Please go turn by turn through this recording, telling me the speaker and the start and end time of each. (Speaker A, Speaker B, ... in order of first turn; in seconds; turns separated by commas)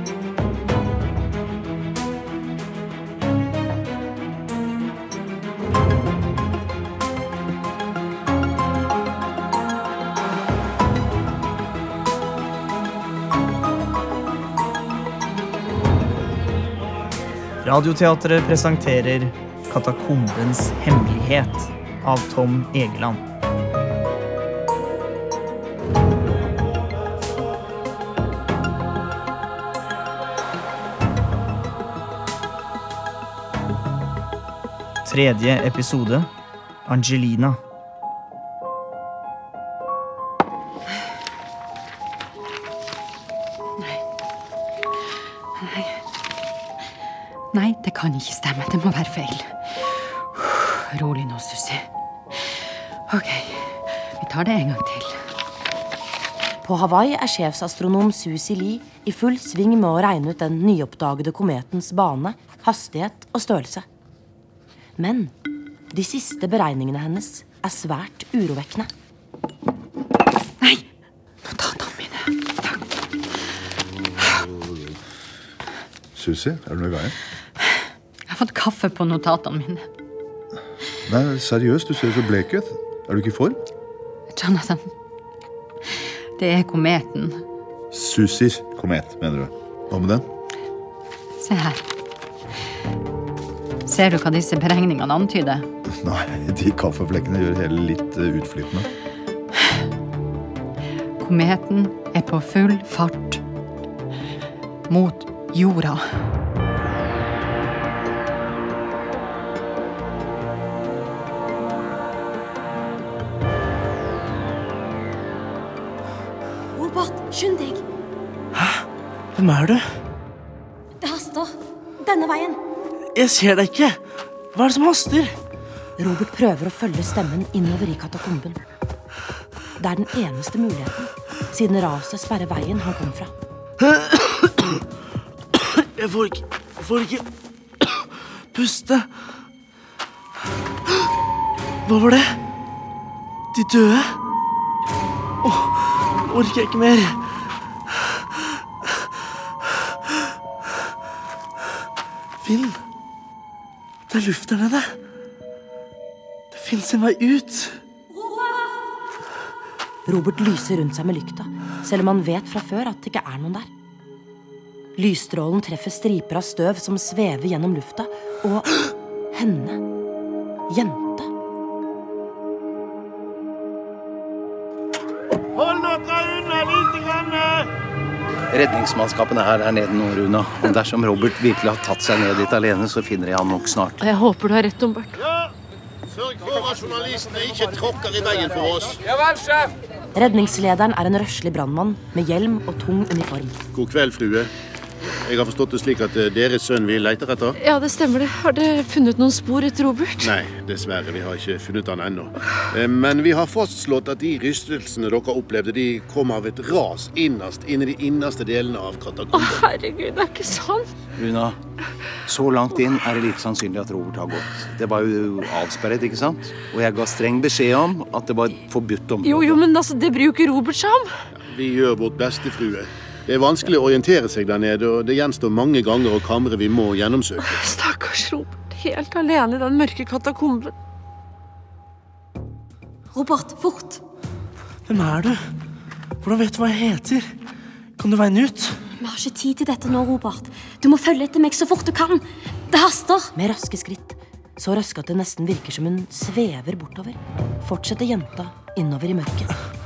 Speaker A: 17.6-23.2, Speaker A: 35.0-36.3, Speaker A: 36.9-37.6, Speaker B: 45.6-46.0, Speaker B: 47.5-52.5, Speaker B: 53.1-55.2, Speaker C: 56.6-63.8, Speaker C: 65.0-65.3, Speaker C: 65.9-68.9, Speaker B: 71.4-72.7, Speaker D: 76.1-77.1, Speaker B: 78.3-79.8, Speaker D: 81.0-83.6, Speaker B: 84.3-84.9, Speaker B: 86.4-87.4, Speaker D: 87.9-90.2, Speaker B: 91.4-91.8, Speaker B: 93.8-95.7, Speaker D: 95.9-98.9, Speaker B: 101.2-103.4, Speaker B: 104.9-106.0, Speaker E: 116.8-117.8, Speaker F: 118.5-118.8, Speaker F: 119.3-119.8, Speaker E: 121.0-122.6, Speaker F: 123.1-124.0, Speaker F: 124.5-125.3, Speaker C: 126.0-128.6, Speaker C: 129.8-133.3, Speaker F: 133.8-134.8, Speaker F: 135.6-137.2, Speaker F: 137.8-139.1, Speaker F: 141.8-142.3, Speaker F: 143.5-144.2, Speaker F: 145.4-147.2, Speaker F: 152.4-152.8, Speaker F: 154.1-154.9, Speaker F: 156.5-157.8, Speaker C: 160.1-163.7, Speaker C: 164.9-168.8, Speaker C: 169.3-169.8, Speaker C: 170.7-171.3, Speaker G: 175.5-177.7, Speaker H: 178.5-184.0, Speaker I: 184.0-185.2, Speaker G: 185.2-185.5, Speaker G: 186.1-189.0, Speaker C: 190.1-193.5, Speaker G: 193.7-194.5, Speaker G: 195.2-197.6, Speaker I: 197.6-200.3, Speaker G: 200.2-209.6, Speaker I: 209.3-210.9, Speaker H: 211.1-211.6, Speaker H: 212.2-219.6, Speaker I: 219.2-221.1, Speaker G: 221.3-227.6, Speaker I: 227.4-230.7, Speaker E: 233.1-234.0, Speaker F: 234.9-235.4, Speaker F: 236.2-237.3, Speaker F: 238.0-238.8, Speaker E: 239.0-243.3, Speaker C: 243.3-249.5